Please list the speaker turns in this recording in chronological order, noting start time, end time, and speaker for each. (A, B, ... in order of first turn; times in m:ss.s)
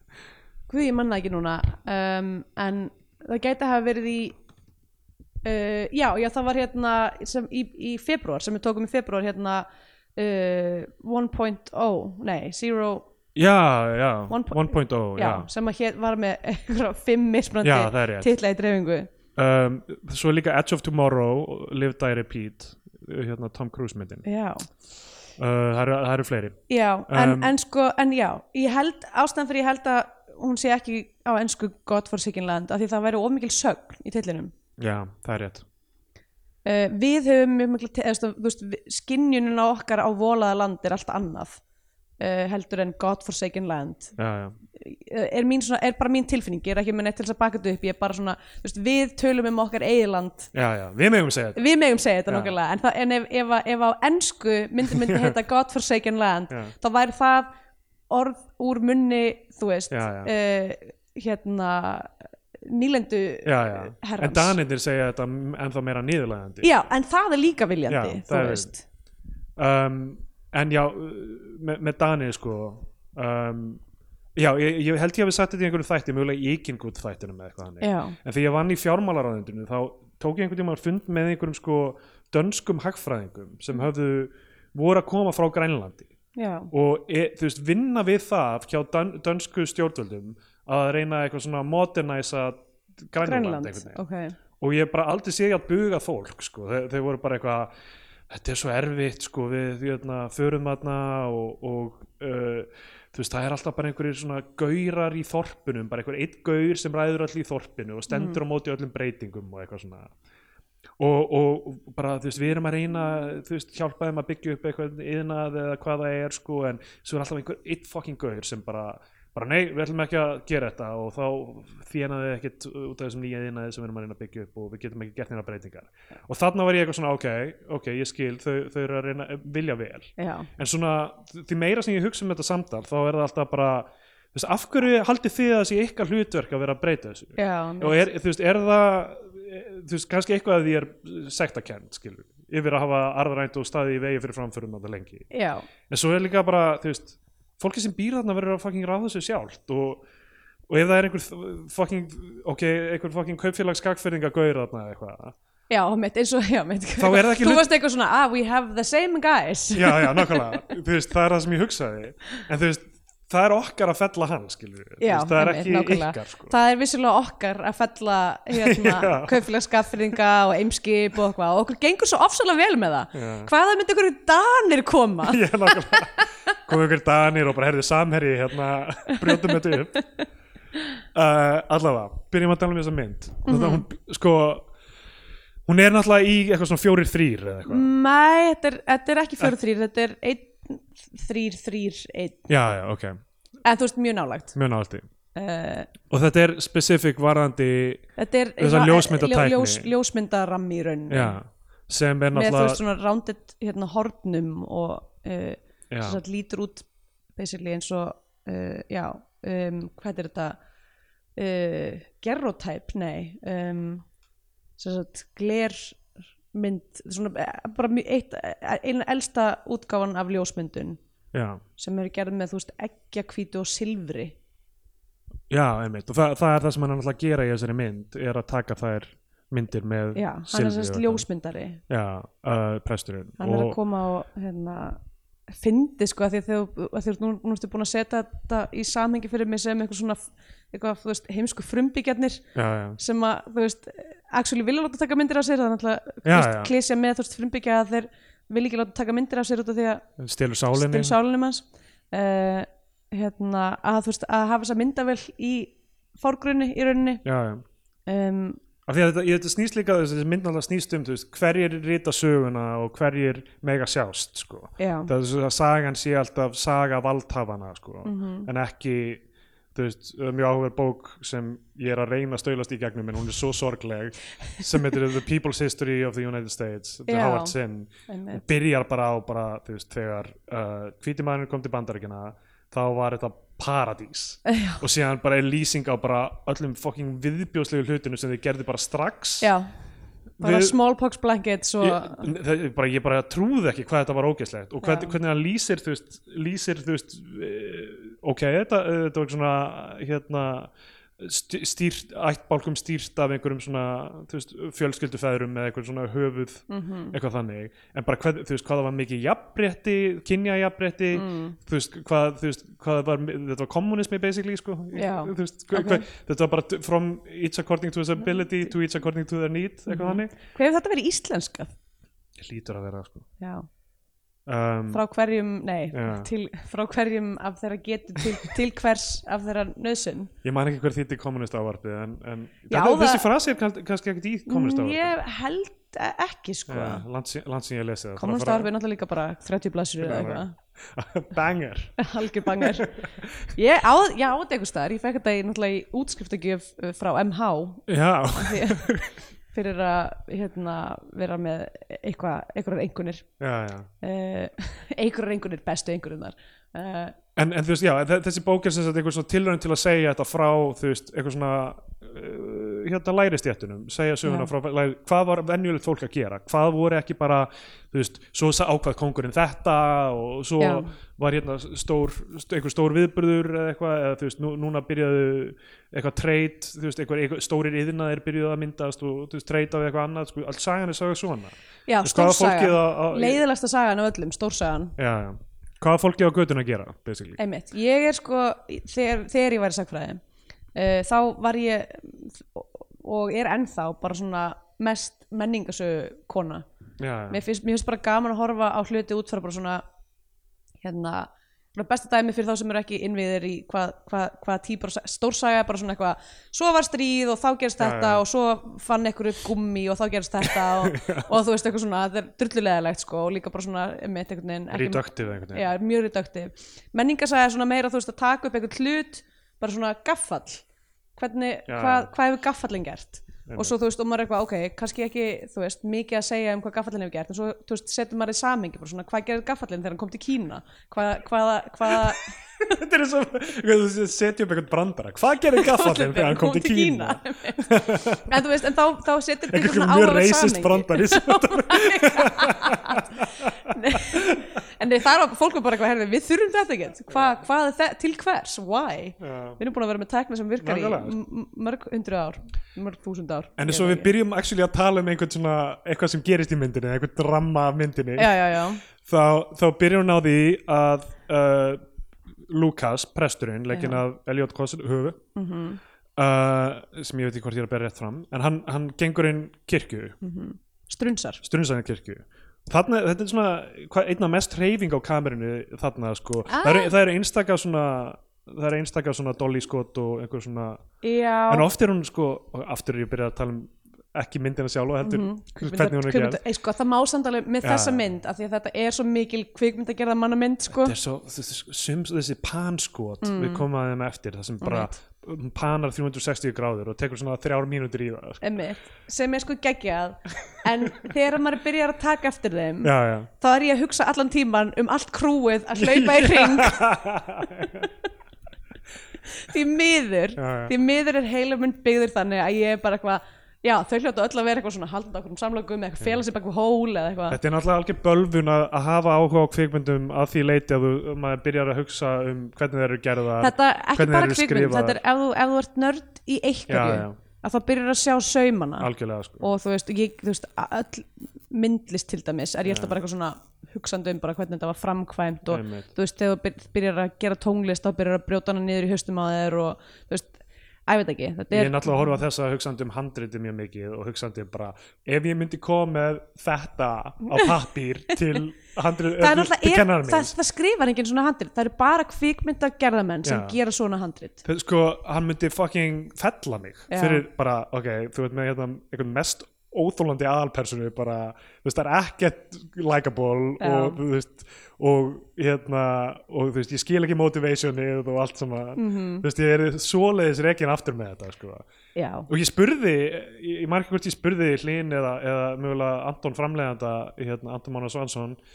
0:00.7-0:04.4 A
0:05.4-0:13.0 A
0:13.3-0:15.5 B
0:14.3-0:19.1 A
0:17.6-0:18.3 B
0:19.4-0:24.2 B
0:24.2-0:24.6 A
0:25.4-0:27.5 B
0:26.7-0:34.5 A
0:34.8-0:35.6 B
0:36.6-0:41.6 A
0:42.2-0:44.2 A
0:44.2-0:44.6 B
0:44.8-0:50.5 A
0:50.5-0:51.6 B
0:51.5-0:57.5 A
0:52.3-0:52.5 B
0:54.9-0:55.3 B
0:58.1-1:04.6 A
0:59.9-1:00.3 B
1:03.4-1:06.7 B
1:06.6-1:08.8 A
1:07.9-1:08.7 B
1:09.6-1:13.8 B
1:14.4-1:26.1 B
1:17.8-1:18.2 A
1:26.3-1:26.7 A
1:26.7-1:34.0 B
1:33.2-1:34.4 A
1:34.6-1:37.7 B
1:38.3-1:50.1 B
1:48.1-1:48.4 A
1:51.0-2:25.3 B
2:10.2-2:10.5 A
2:17.4-2:18.0 A
2:25.3-2:25.6 A
2:25.9-2:30.0 B
2:30.7-2:35.3 B
2:35.7-2:40.7 A
2:37.0-2:37.7 B
2:39.7-2:46.5 B
2:45.0-2:56.3 A
2:48.5-2:49.4 B
2:53.1-2:53.5 B
2:55.2-3:00.0 B
2:59.2-2:59.5 A
3:01.1-3:04.7 B
3:03.4-3:03.8 A
3:05.6-3:07.9 B
3:07.7-3:12.5 A
3:12.5-3:13.2 B
3:13.6-3:14.6 A
3:14.5-3:15.0 B
3:15.3-3:15.9 A
3:16.1-3:19.9 B
3:18.2-3:21.4 A
3:21.1-3:22.8 B
3:22.3-3:30.6 A
3:25.9-3:26.2 B
3:31.4-3:34.0 A
3:34.8-3:41.0 A
3:41.3-3:41.6 B
3:41.8-3:44.4 A
3:45.5-3:51.2 B
3:50.1-3:51.8 A
3:51.9-3:53.8 B
3:53.4-4:02.4 A
4:02.5-4:03.0 B
4:03.0-4:10.0 A
4:06.2-4:06.7 B
4:10.2-4:11.2 B
4:10.7-4:17.2 A
4:17.2-4:17.6 B
4:18.1-4:18.6 A
4:18.8-4:49.5 B
4:24.8-4:25.1 A
4:28.0-4:28.5 A
4:37.1-4:37.5 A
4:38.1-4:38.4 A
4:44.4-4:44.8 A
4:49.4-4:49.7 A
4:50.4-4:50.8 B
4:50.4-4:52.3 A
4:51.8-5:20.3 B
4:54.8-4:55.2 A
5:06.7-5:07.2 A
5:11.1-5:11.6 A
5:14.9-5:16.0 A
5:19.9-5:21.7 A
5:22.4-5:23.2 B
5:23.4-5:23.7 A
5:24.4-5:25.0 B
5:24.9-5:30.3 A
5:25.9-5:26.3 B
5:30.4-5:35.1 B
5:32.7-5:33.3 A
5:34.5-5:37.0 A
5:36.7-5:38.7 B
5:38.2-5:40.5 A
5:40.0-5:43.5 B
5:42.0-5:43.0 A
5:43.5-5:48.9 A
5:47.9-5:49.1 B
5:49.5-5:53.3 A
5:53.4-5:53.9 B
5:54.0-5:57.2 A
5:57.4-6:23.4 B
6:04.2-6:04.5 A
6:10.6-6:10.9 A
6:21.9-6:25.0 A
6:25.0-6:27.4 B
6:27.4-6:30.2 A
6:30.7-6:36.6 A
6:37.0-6:37.4 B
6:37.3-6:39.8 A
6:40.8-7:00.6 A
6:47.8-6:48.2 B
6:50.9-6:51.3 B
6:54.7-6:55.7 B
7:01.2-7:12.3 A
7:01.7-7:02.1 B
7:03.4-7:03.7 B
7:11.9-7:18.2 B
7:15.5-7:23.1 A
7:19.5-7:24.5 B
7:23.7-7:34.1 A
7:29.2-7:29.6 B
7:30.6-7:31.2 B
7:33.6-7:41.8 B
7:38.2-7:38.8 A
7:42.5-7:45.2 B
7:43.7-7:44.0 A
7:45.4-7:45.8 A
7:46.2-7:50.2 B
7:50.2-7:51.4 A
7:51.4-8:00.8 B
7:56.5-7:56.9 A
8:01.0-8:01.7 A
8:01.5-8:06.4 B
8:05.0-8:10.9 A
8:07.6-8:08.0 B
8:10.7-8:18.4 B
8:13.2-8:13.6 A
8:14.6-8:14.9 A
8:18.4-8:26.9 A
8:22.8-8:23.3 B
8:25.7-8:27.9 B
8:29.3-8:37.4 A
8:30.4-8:30.7 B
8:37.3-8:45.0 B
8:43.4-9:02.2 A
8:46.7-8:47.2 B
8:48.8-8:49.5 B
8:52.6-8:53.0 B
8:55.5-8:55.9 B
9:01.5-9:10.3 B
9:09.2-9:14.4 A
9:13.2-9:13.6 B
9:14.4-9:31.6 B
9:16.9-9:17.2 A
9:23.6-9:24.0 A
9:28.8-9:29.2 A
9:31.9-9:32.3 A
9:32.3-9:38.4 B